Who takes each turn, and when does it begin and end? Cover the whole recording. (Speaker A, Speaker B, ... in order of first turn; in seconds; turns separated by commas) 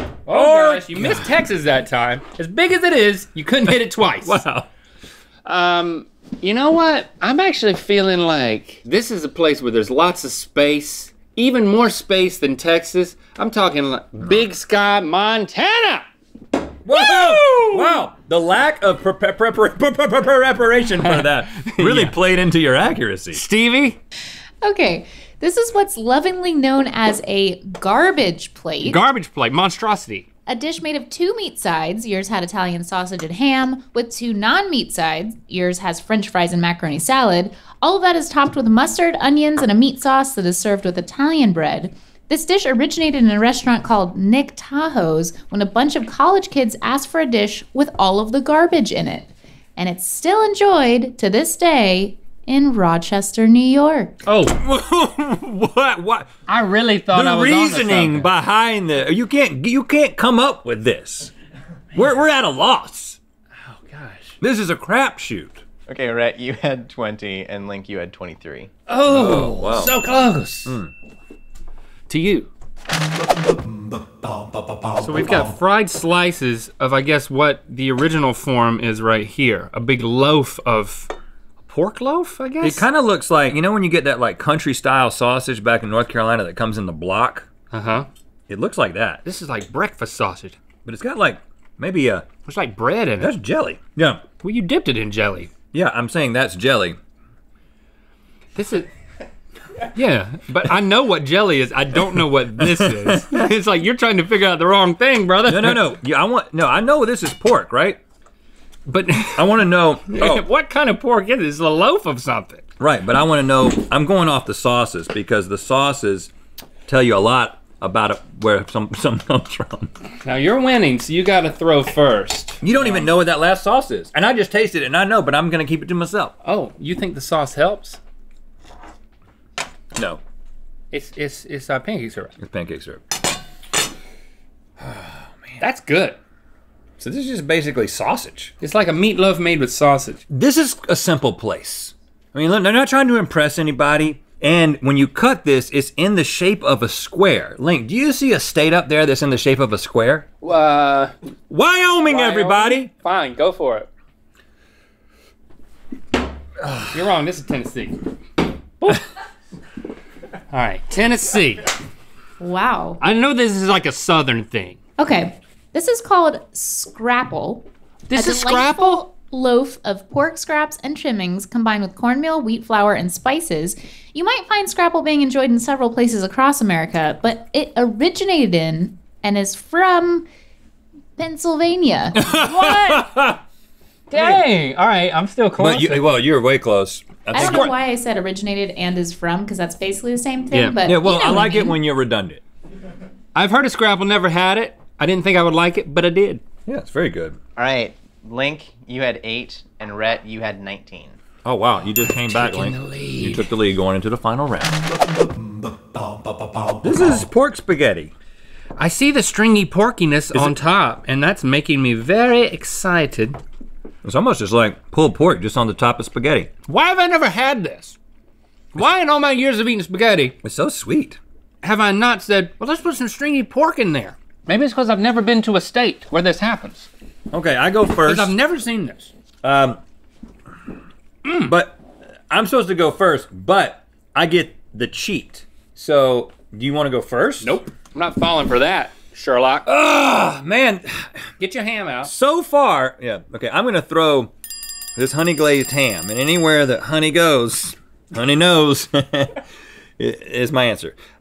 Speaker A: 0.3-1.3, Speaker B: 0.3-4.5, Speaker A: 4.2-4.7, Speaker B: 5.5-16.1, Speaker A: 16.9-23.4, Speaker B: 16.9-18.0, Speaker B: 21.0-22.2, Speaker B: 23.3-24.0, Speaker C: 24.6-29.1, Speaker B: 28.8-30.3, Speaker C: 30.5-54.2, Speaker B: 54.3-54.6, Speaker A: 54.5-56.3, Speaker B: 56.5-58.3, Speaker A: 57.1-61.3, Speaker A: 62.0-63.2, Speaker B: 63.5-64.4, Speaker A: 64.4-65.6, Speaker D: 65.9-68.7, Speaker B: 68.9-70.8, Speaker A: 69.1-70.0, Speaker A: 70.7-70.9, Speaker B: 72.1-72.5, Speaker B: 74.9-81.1, Speaker B: 81.6-82.9, Speaker A: 82.6-87.5, Speaker B: 87.7-88.1, Speaker A: 88.5-89.2, Speaker B: 89.2-90.6, Speaker A: 90.8-92.3, Speaker B: 92.5-93.3, Speaker A: 93.2-94.3, Speaker B: 94.4-95.5, Speaker A: 95.7-97.0, Speaker B: 98.5-98.9, Speaker B: 99.9-105.9, Speaker A: 102.6-103.4, Speaker A: 105.5-108.0, Speaker B: 108.9-112.7, Speaker A: 109.4-110.4, Speaker A: 112.8-116.3, Speaker A: 116.9-119.9, Speaker B: 120.2-123.1, Speaker A: 122.6-126.3, Speaker B: 126.4-128.0, Speaker A: 130.0-130.2, Speaker B: 130.9-132.3, Speaker A: 132.4-133.2, Speaker A: 134.8-135.6, Speaker B: 135.6-136.2, Speaker A: 137.0-138.5, Speaker B: 138.6-140.2, Speaker A: 140.3-150.3, Speaker B: 150.4-151.1, Speaker A: 151.5-152.9, Speaker B: 152.1-153.9, Speaker A: 156.6-156.9, Speaker B: 156.9-158.1, Speaker B: 160.5-161.7, Speaker C: 162.4-163.0, Speaker B: 163.0-164.8, Speaker C: 165.0-180.3, Speaker B: 168.1-169.1, Speaker C: 181.2-183.0, Speaker A: 182.2-183.4, Speaker B: 184.1-186.1, Speaker A: 184.1-184.4, Speaker A: 185.6-187.7, Speaker B: 187.3-187.7, Speaker C: 187.3-191.8, Speaker B: 190.5-190.8, Speaker A: 190.8-192.4, Speaker B: 193.3-196.4, Speaker A: 196.7-197.4, Speaker D: 197.6-201.2, Speaker A: 201.4-204.8, Speaker B: 202.1-203.5, Speaker A: 206.8-208.1, Speaker B: 208.8-213.4, Speaker A: 214.0-216.5, Speaker B: 216.7-218.0, Speaker B: 218.7-220.4, Speaker A: 220.4-221.2, Speaker B: 221.6-226.9, Speaker A: 227.3-228.3, Speaker B: 228.0-229.1, Speaker A: 229.4-229.8, Speaker B: 231.2-231.5, Speaker A: 231.4-237.6, Speaker B: 237.4-239.7, Speaker A: 239.7-241.3, Speaker B: 241.4-242.1, Speaker A: 242.0-244.3, Speaker A: 245.0-249.4, Speaker A: 250.0-251.0